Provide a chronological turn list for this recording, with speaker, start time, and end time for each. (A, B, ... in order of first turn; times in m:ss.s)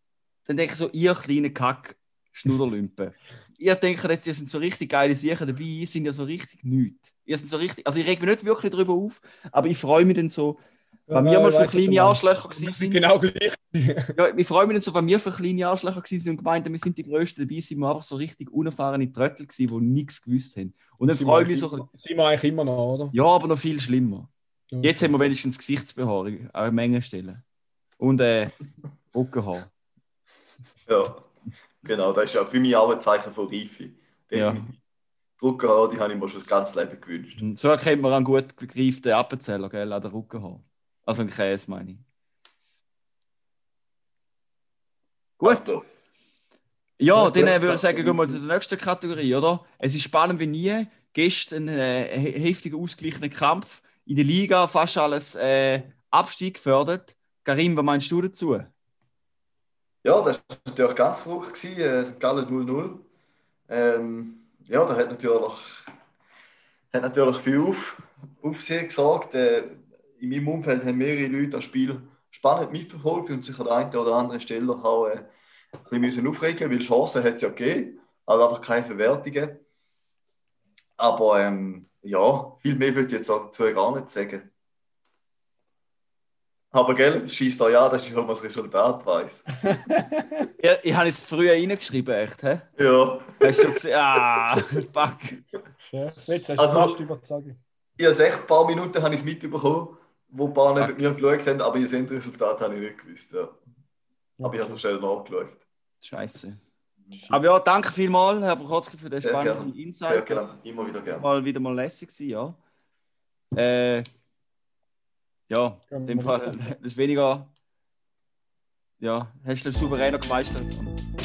0:00.5-0:10.6 A
0:11.1-0:14.1 B
0:11.1-0:13.0 A
0:14.2-0:21.9 A
0:21.0-0:23.1 B
0:23.1-0:24.3 A
0:24.7-0:25.2 B
0:24.8-0:27.4 A
0:28.0-0:28.5 A
0:29.1-0:29.7 A
0:30.9-0:31.3 C
0:31.8-0:34.8 C
0:34.3-0:34.6 A
0:35.4-0:37.4 C
0:37.4-0:42.0 A
0:45.4-0:45.7 A
0:45.4-0:45.8 C
0:47.0-0:58.7 A
0:47.1-0:48.4 C
1:00.0-1:03.0 C
1:03.7-1:05.9 C
1:06.9-1:15.3 C
1:15.8-1:19.6 C
1:21.0-1:24.5 C
1:26.7-1:29.5 C
1:29.7-1:30.4 B
1:30.6-1:32.6 A
1:32.8-1:33.7 C
1:33.4-1:35.4 A
1:35.9-1:37.6 B
1:36.6-1:37.0 C
1:38.0-1:43.6 C
1:44.4-1:44.8 B
1:44.4-1:45.6 C
1:46.0-1:46.6 A
1:47.1-1:47.4 B
1:47.3-1:50.4 A
1:49.2-1:51.2 C
1:51.2-1:52.6 A
1:53.5-1:54.0 A
1:55.5-1:57.5 A
1:55.9-1:56.7 B
1:59.0-2:00.9 A